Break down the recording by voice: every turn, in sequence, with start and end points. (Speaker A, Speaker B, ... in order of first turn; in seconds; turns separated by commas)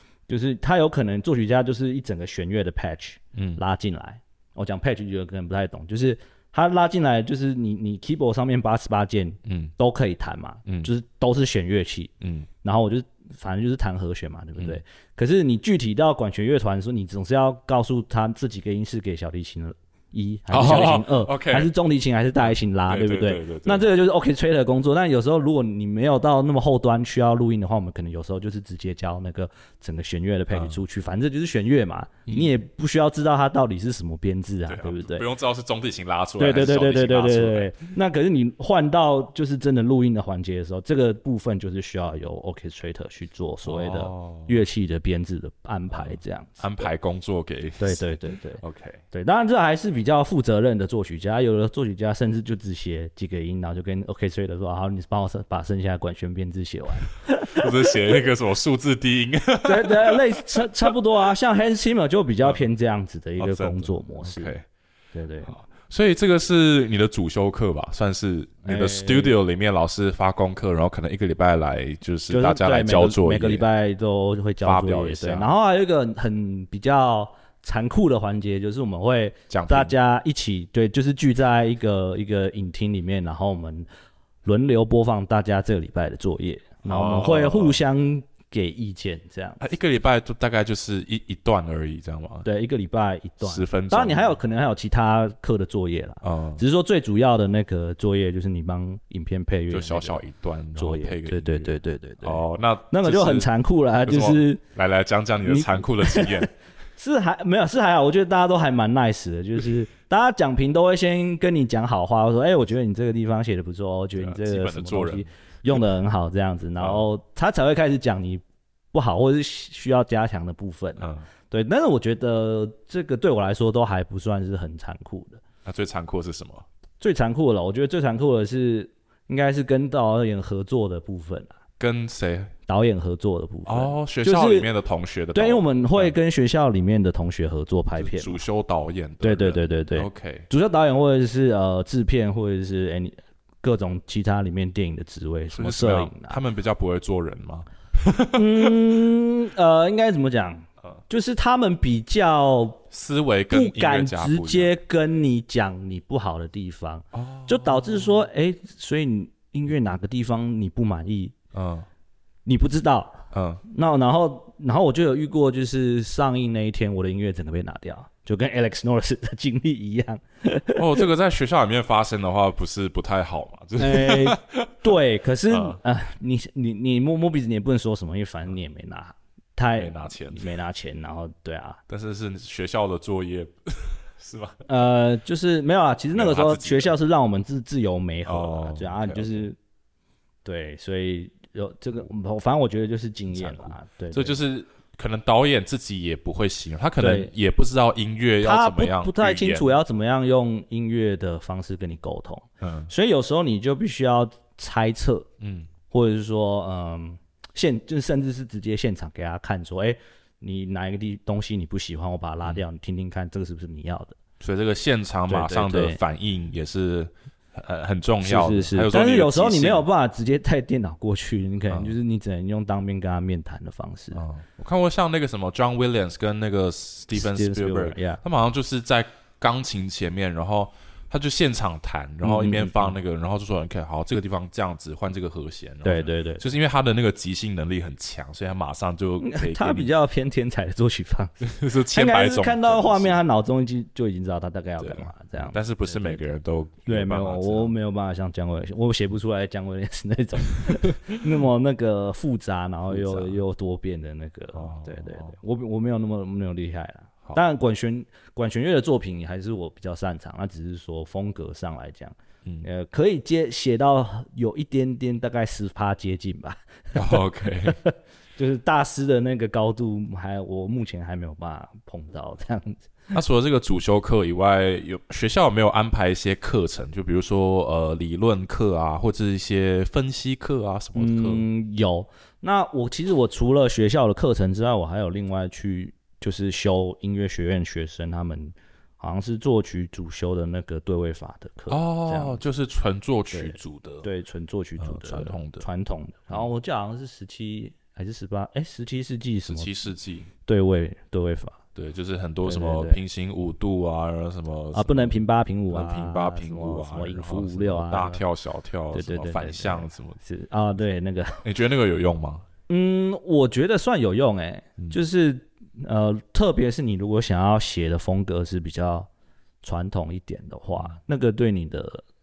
Speaker A: 0.3-12.1, Speaker B: 3.3-3.6, Speaker B: 9.4-9.7, Speaker B: 10.7-10.9, Speaker B: 12.2-12.5, Speaker A: 12.6-35.2, Speaker B: 20.5-21.7, Speaker B: 22.4-23.9, Speaker B: 30.5-30.8, Speaker B: 34.7-37.8, Speaker A: 36.4-46.9, Speaker B: 43.6-44.6, Speaker B: 45.9-48.1, Speaker A: 47.8-58.2, Speaker B: 48.6-49.0, Speaker B: 57.5-60.9, Speaker A: 59.6-64.5, Speaker B: 63.4-64.6, Speaker A: 65.1-65.5, Speaker B: 65.5-73.7, Speaker A: 68.6-69.3, Speaker A: 72.3-83.9, Speaker B: 74.6-75.5, Speaker B: 79.5-79.9, Speaker A: 84.4-89.6, Speaker B: 86.8-87.8, Speaker B: 89.6-92.5, Speaker A: 92.4-100.2, Speaker B: 93.4-94.4, Speaker B: 96.2-96.6, Speaker B: 99.7-101.7, Speaker A: 100.8-104.6, Speaker B: 102.2-103.5, Speaker B: 104.0-106.5, Speaker A: 105.4-125.4, Speaker B: 114.2-115.8, Speaker B: 116.8-117.0, Speaker B: 121.0-121.3, Speaker B: 125.6-126.7, Speaker A: 127.0-131.5, Speaker B: 131.8-132.5, Speaker A: 132.7-134.7, Speaker B: 133.7-136.1, Speaker A: 135.3-138.4, Speaker B: 137.9-140.5, Speaker A: 139.2-146.4, Speaker B: 145.5-148.7, Speaker A: 148.3-152.8, Speaker B: 152.9-154.7, Speaker A: 153.5-161.3, Speaker B: 157.1-158.2, Speaker B: 161.5-161.9, Speaker A: 162.4-171.0, Speaker B: 163.3-163.6, Speaker B: 170.7-174.8, Speaker A: 173.8-181.8, Speaker B: 175.5-175.8, Speaker B: 179.8-180.5, Speaker B: 181.9-184.6, Speaker A: 184.7-189.6, Speaker B: 186.1-186.9, Speaker B: 188.2-189.5, Speaker A: 190.4-194.4, Speaker B: 193.3-199.7, Speaker A: 197.0-197.3, Speaker A: 198.4-205.3, Speaker B: 202.6-202.9, Speaker B: 205.4-205.7, Speaker A: 205.9-214.2, Speaker B: 214.4-219.8, Speaker A: 215.3-216.0, Speaker A: 218.2-224.2, Speaker B: 221.7-221.9, Speaker B: 224.1-239.9, Speaker A: 227.1-228.2, Speaker A: 232.2-232.9, Speaker A: 235.8-236.4, Speaker A: 239.2-246.2, Speaker B: 241.5-243.2, Speaker B: 244.8-247.7, Speaker A: 246.8-273.1, Speaker B: 252.9-253.4, Speaker B: 254.5-255.3, Speaker B: 266.9-267.8, Speaker B: 273.1-281.4, Speaker A: 280.9-292.4, Speaker B: 291.7-294.1, Speaker A: 293.3-299.7, Speaker B: 294.8-295.6, Speaker B: 299.5-300.3, Speaker A: 300.4-301.6, Speaker B: 301.7-305.2, Speaker A: 302.4-303.0, Speaker A: 304.7-308.2, Speaker B: 305.7-310.2, Speaker A: 308.9-311.4, Speaker B: 311.4-312.4, Speaker A: 312.7-319.1, Speaker A: 319.6-322.0